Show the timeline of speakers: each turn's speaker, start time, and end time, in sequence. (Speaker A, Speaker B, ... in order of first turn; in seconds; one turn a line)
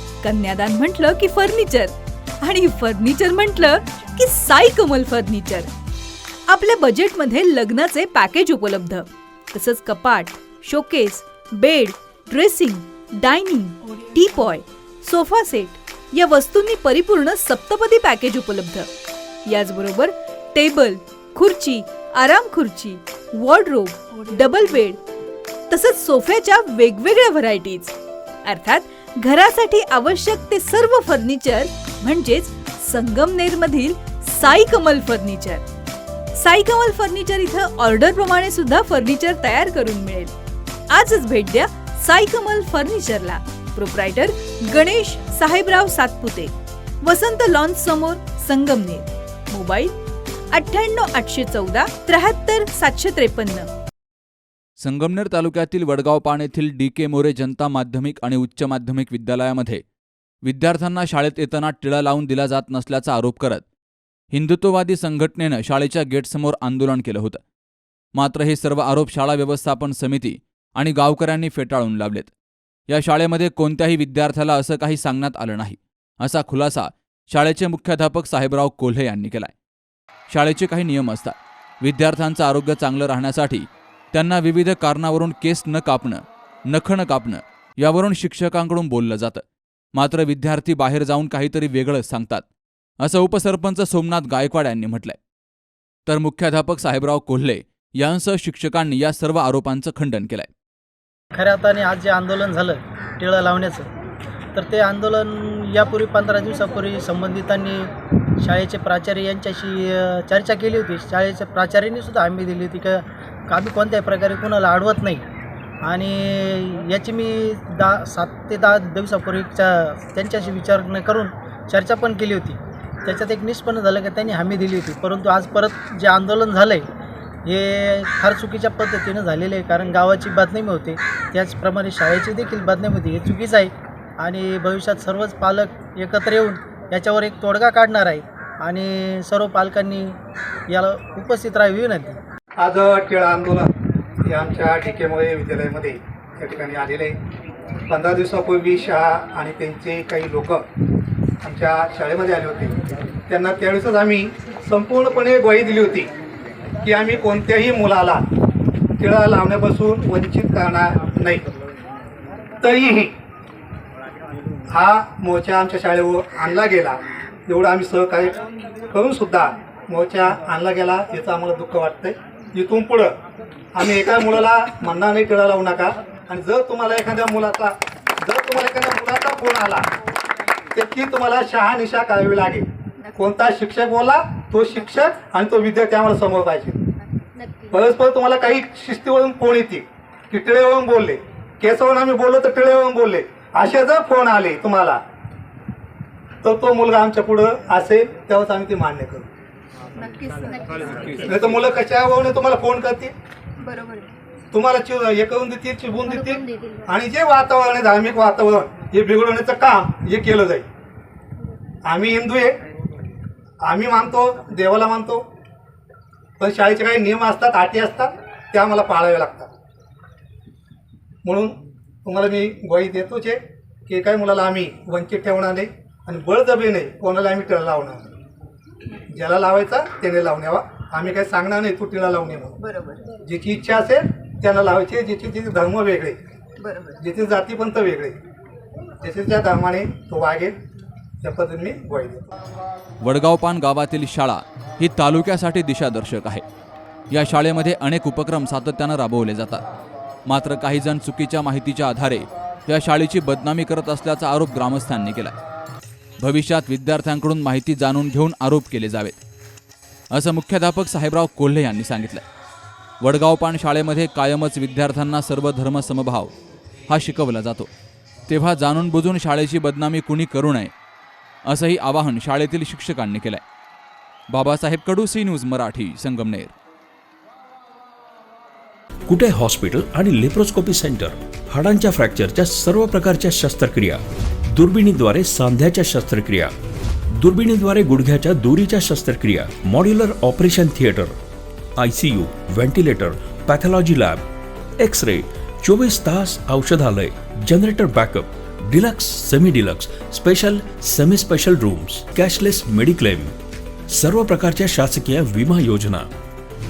Speaker A: 0.2-5.7
Speaker A: 6.5-18.9
Speaker A: 19.4-25.0
Speaker A: 25.7-35.6
Speaker A: 36.3-40.3
Speaker A: 40.9-49.9
Speaker A: 50.5-53.7
Speaker B: 54.8-59.8
Speaker B: 60.4-63.6
Speaker B: 64.3-67.4
Speaker B: 68.1-72.3
Speaker B: 72.9-79.5
Speaker B: 80.3-89.4
Speaker B: 89.9-92.4
Speaker B: 93.0-95.2
Speaker B: 96.0-100.5
Speaker C: 101.3-103.9
Speaker C: 104.5-107.9
Speaker C: 108.4-115.2
Speaker C: 115.8-126.8
Speaker C: 127.5-140.2
Speaker C: 140.7-142.2
Speaker D: 142.6-143.7
Speaker D: 144.2-147.2
Speaker D: 147.9-150.6
Speaker D: 151.4-152.8
Speaker D: 153.3-156.1
Speaker D: 156.8-158.2
Speaker D: 159.0-161.4
Speaker D: 162.6-163.1
Speaker D: 164.7-173.1
Speaker D: 173.7-179.9
Speaker D: 180.7-186.8
Speaker E: 187.3-187.8
Speaker D: 187.7-195.0
Speaker D: 196.4-199.3
Speaker E: 200.0-201.6
Speaker D: 201.2-203.1
Speaker E: 203.6-204.1
Speaker D: 204.5-210.7
Speaker E: 206.1-206.8
Speaker D: 211.8-212.6
Speaker D: 213.6-215.2
Speaker D: 216.4-219.5
Speaker D: 221.2-228.1
Speaker D: 229.1-232.5
Speaker E: 232.6-233.1
Speaker D: 233.2-236.2
Speaker E: 236.6-237.0
Speaker D: 237.0-238.2
Speaker D: 239.0-240.6
Speaker D: 241.2-242.3
Speaker B: 243.0-246.4
Speaker B: 247.1-249.6
Speaker B: 250.2-255.3
Speaker B: 256.2-259.2
Speaker B: 260.1-262.2
Speaker B: 263.0-266.3
Speaker B: 266.9-267.7
Speaker B: 268.3-270.7
Speaker B: 271.5-273.4
Speaker B: 274.3-276.5
Speaker F: 279.1-286.5
Speaker F: 287.1-291.1
Speaker F: 291.8-294.2
Speaker F: 294.8-303.3
Speaker F: 303.9-306.0